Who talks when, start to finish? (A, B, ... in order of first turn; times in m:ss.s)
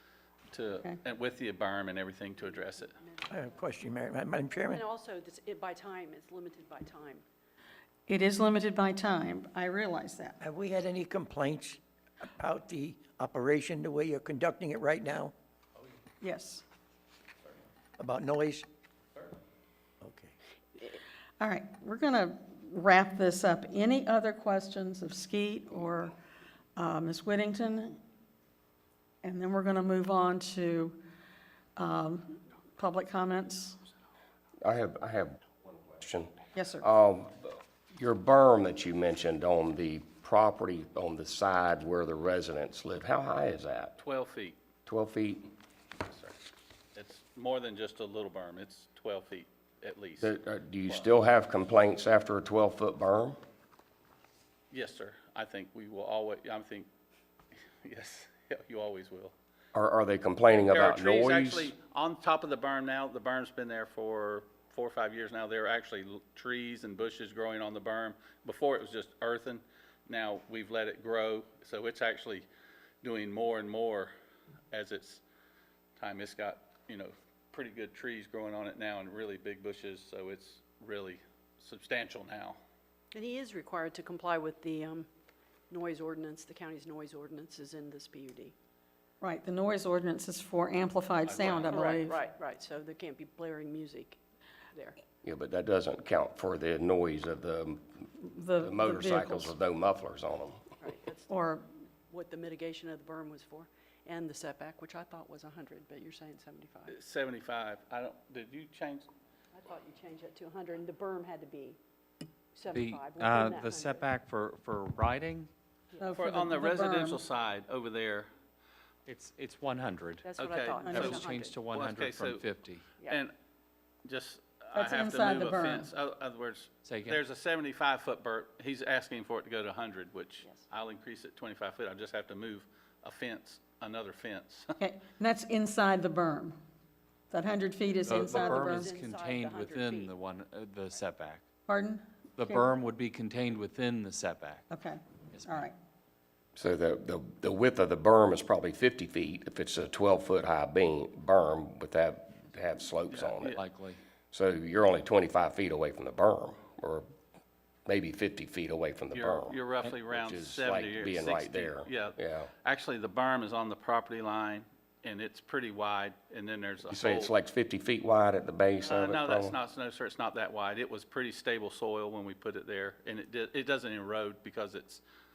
0:00.5-0:02.9 A
0:02.4-0:03.8 B
0:03.3-0:04.8 C
0:04.5-0:07.2 B
0:08.1-0:10.4 D
0:10.4-0:15.3 C
0:16.2-0:16.6 D
0:18.0-0:18.6 C
0:20.0-0:20.3 C
0:21.4-0:26.1 D
0:26.8-0:28.0 D
0:29.2-0:31.0 D
0:31.8-0:33.8 D
0:34.6-0:44.0 E
0:36.5-0:36.8 D
0:44.0-0:44.6 A
0:44.8-0:45.5 E
0:46.0-0:46.3 A
0:46.9-0:51.1 A
0:50.2-0:53.4 E
0:54.7-0:56.9 A
0:57.8-0:59.3 A
0:59.7-1:01.7 E
1:00.7-1:12.5 A
1:13.0-1:14.1 A
1:14.7-1:15.2 A
1:16.0-1:22.6 A
1:23.1-1:25.1 B
1:25.7-1:28.5 B
1:29.2-1:32.2 D
1:31.2-1:32.0 A
1:31.4-1:34.2 B
1:35.2-1:40.6 E
1:38.2-1:39.6 D
1:40.8-1:41.4 B
1:41.3-1:41.6 D
1:42.1-1:46.9 B
1:46.9-1:49.1 A
1:49.5-1:51.8 B
1:52.5-1:54.0 B
1:52.7-1:55.5 F
1:56.0-1:57.2 D
1:56.2-1:58.3 A
1:59.0-2:00.2 F
2:00.2-2:01.6 B
2:00.4-2:02.4 A
2:00.8-2:01.2 D
2:00.9-2:02.8 F
2:03.0-2:03.3 A
2:04.0-2:14.7 A
2:04.7-2:05.9 D
2:06.8-2:07.2 F
2:14.8-2:16.6 D
2:17.3-2:18.9 D
2:18.0-2:21.4 F
2:18.1-2:20.1 B
2:21.7-2:22.7 D
2:22.4-2:24.7 F
2:24.7-2:25.7 D
2:25.3-2:25.7 F
2:26.6-2:33.6 E
2:33.1-2:33.6 A
2:33.4-2:34.0 F
2:34.3-2:37.1 E
2:37.8-2:42.5 E
2:39.1-2:47.3 A
2:46.9-2:49.6 E
2:48.8-2:55.0 A